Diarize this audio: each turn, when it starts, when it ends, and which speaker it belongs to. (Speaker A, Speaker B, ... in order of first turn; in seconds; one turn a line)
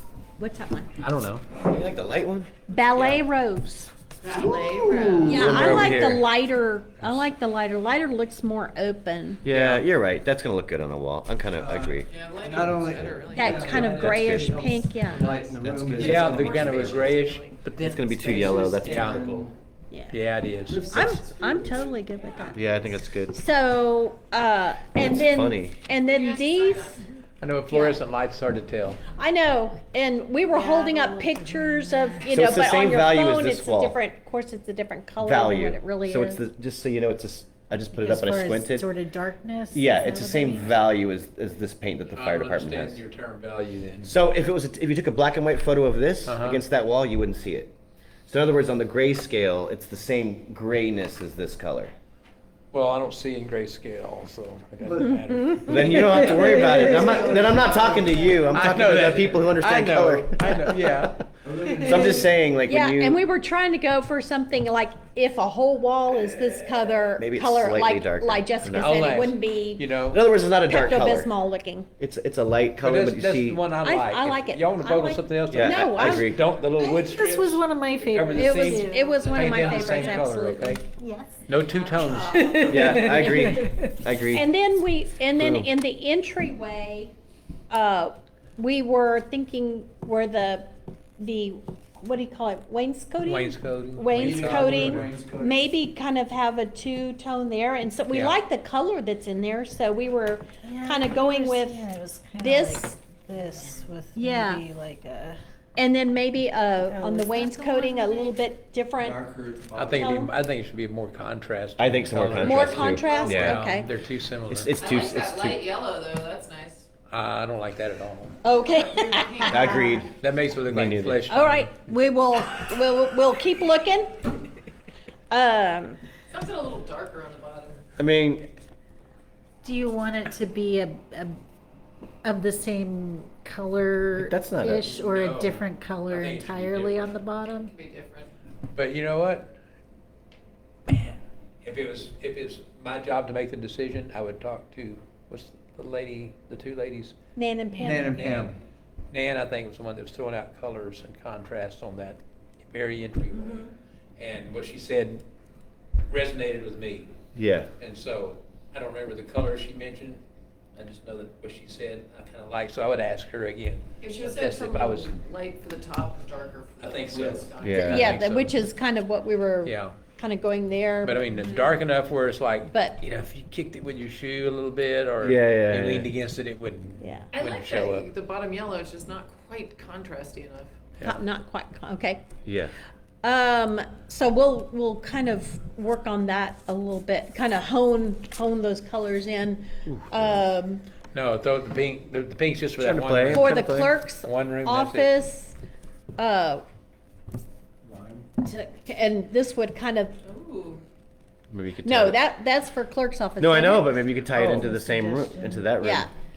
Speaker A: 0.4-0.9
Speaker B: 1.0-1.4
Speaker C: 1.6-2.5
Speaker A: 2.7-3.9
Speaker B: 2.9-3.2
Speaker D: 4.2-6.0
Speaker C: 4.3-6.2
Speaker A: 5.2-9.4
Speaker B: 5.5-6.1
Speaker B: 7.0-7.3
Speaker C: 9.4-12.1
Speaker B: 9.5-9.8
Speaker E: 11.6-17.2
Speaker D: 12.1-13.8
Speaker A: 13.3-15.3
Speaker C: 13.6-14.6
Speaker C: 15.6-17.1
Speaker B: 15.9-19.5
Speaker D: 16.4-17.4
Speaker C: 17.8-19.3
Speaker E: 18.1-19.5
Speaker A: 19.9-20.2
Speaker B: 20.1-21.0
Speaker E: 20.7-22.0
Speaker A: 20.9-27.0
Speaker C: 22.5-23.4
Speaker C: 24.9-25.8
Speaker D: 26.0-27.0
Speaker B: 27.4-29.0
Speaker A: 27.7-28.0
Speaker A: 29.1-36.4
Speaker F: 30.5-32.3
Speaker C: 32.3-34.0
Speaker C: 35.2-38.9
Speaker F: 37.9-40.7
Speaker C: 39.7-43.0
Speaker B: 42.1-44.1
Speaker C: 44.0-47.7
Speaker B: 46.2-46.6
Speaker C: 48.3-51.9
Speaker B: 52.7-62.2
Speaker E: 54.8-55.1
Speaker A: 55.0-56.3
Speaker C: 55.7-61.1
Speaker E: 56.1-58.1
Speaker D: 57.0-58.5
Speaker E: 61.4-62.4
Speaker C: 61.8-63.2
Speaker A: 62.7-69.8
Speaker C: 67.2-69.2
Speaker B: 68.7-70.2
Speaker C: 70.1-71.3
Speaker A: 70.7-71.9
Speaker C: 72.0-73.6
Speaker B: 72.8-80.8
Speaker A: 73.8-76.3
Speaker C: 75.5-76.4
Speaker F: 76.8-79.4
Speaker A: 78.3-80.8
Speaker F: 81.0-83.0
Speaker B: 81.5-83.9
Speaker D: 82.0-83.0
Speaker C: 82.6-84.5
Speaker A: 83.0-83.6
Speaker A: 84.3-87.1
Speaker C: 85.3-85.7
Speaker A: 87.7-90.7
Speaker A: 91.2-101.8
Speaker B: 93.2-95.1
Speaker E: 94.1-95.6
Speaker B: 98.1-98.3
Speaker F: 100.6-105.4
Speaker A: 102.4-102.9
Speaker A: 104.2-104.6
Speaker A: 105.8-109.2
Speaker F: 106.9-108.4
Speaker E: 109.0-110.2
Speaker B: 109.7-114.7
Speaker A: 110.0-110.3
Speaker C: 111.8-113.7
Speaker A: 112.3-113.9
Speaker D: 112.6-113.5
Speaker C: 114.5-115.6
Speaker D: 114.8-116.8
Speaker B: 117.1-118.4
Speaker A: 118.4-119.8
Speaker D: 118.6-120.0
Speaker C: 119.5-120.1
Speaker F: 119.5-120.0
Speaker B: 120.2-121.8
Speaker C: 120.7-121.2
Speaker A: 121.3-124.1
Speaker A: 125.3-126.0
Speaker D: 126.3-127.8
Speaker C: 128.0-128.5
Speaker F: 129.6-131.4
Speaker F: 132.2-137.7
Speaker C: 134.2-134.9
Speaker B: 134.9-137.1
Speaker D: 137.6-138.3
Speaker B: 138.7-139.6
Speaker B: 140.9-147.1
Speaker A: 147.3-148.5
Speaker E: 147.7-148.6
Speaker B: 148.0-148.6
Speaker B: 149.1-155.2
Speaker B: 156.1-157.1
Speaker C: 157.3-157.7
Speaker B: 157.8-160.2
Speaker B: 160.7-165.1
Speaker D: 164.0-168.0
Speaker B: 166.8-168.6
Speaker C: 167.6-168.1
Speaker A: 167.8-171.3
Speaker B: 169.6-170.0
Speaker B: 171.0-178.1
Speaker D: 171.3-171.8
Speaker A: 172.7-173.0
Speaker C: 175.2-176.1
Speaker A: 177.0-177.3
Speaker D: 177.3-180.7
Speaker A: 181.0-182.2
Speaker C: 182.4-182.7
Speaker A: 183.2-190.8
Speaker C: 189.8-190.5
Speaker B: 191.1-195.2
Speaker C: 192.8-193.9
Speaker A: 193.3-195.5
Speaker A: 196.2-196.6
Speaker E: 197.9-198.2
Speaker A: 198.4-200.1
Speaker D: 200.2-200.8
Speaker C: 201.5-202.2
Speaker A: 201.8-204.1
Speaker C: 203.4-206.1
Speaker F: 204.3-205.7
Speaker A: 205.8-206.1